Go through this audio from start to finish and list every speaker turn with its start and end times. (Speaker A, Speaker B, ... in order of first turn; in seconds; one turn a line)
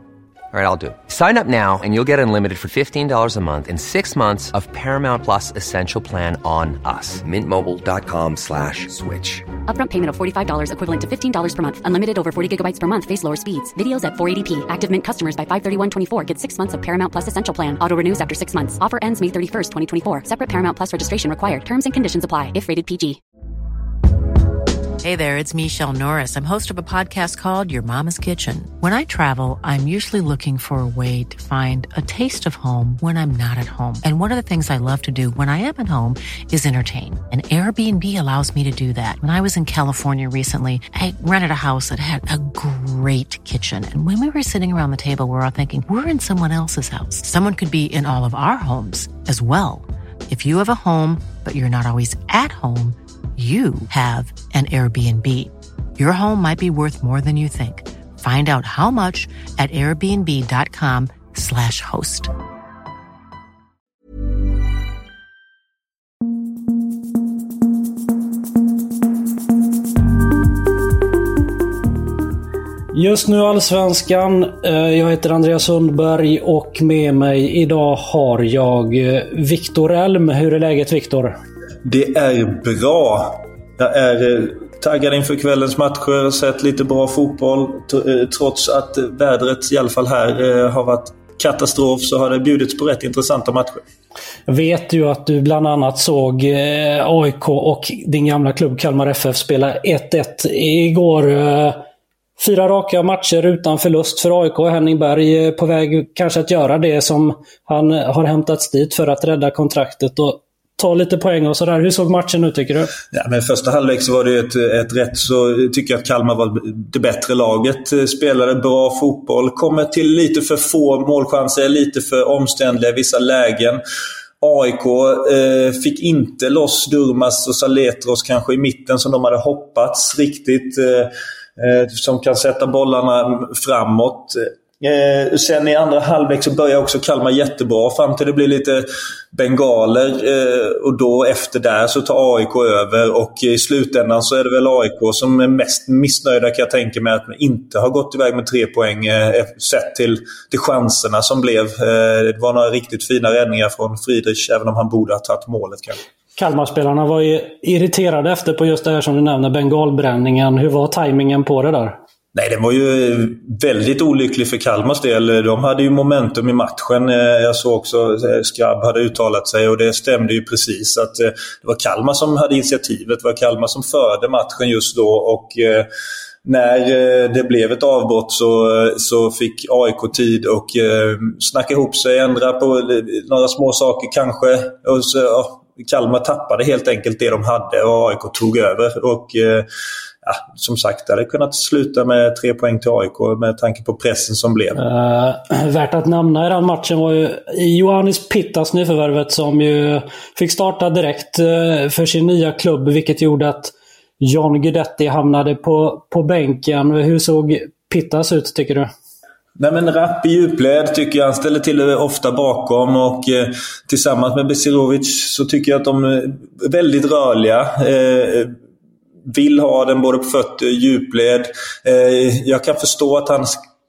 Speaker A: 0.5-9.5
Speaker B: 9.7-23.2
Speaker C: 25.0-62.3
Speaker D: 72.9-81.3
Speaker E: 81.8-93.8
Speaker D: 94.5-101.8
Speaker D: 102.4-112.9
Speaker E: 113.1-123.8
Speaker E: 124.4-156.0
Speaker D: 156.4-162.0
Speaker E: 162.3-175.9
Speaker E: 176.4-189.7
Speaker E: 190.2-194.8
Speaker D: 194.8-208.9
Speaker E: 209.6-218.5
Speaker E: 219.3-223.5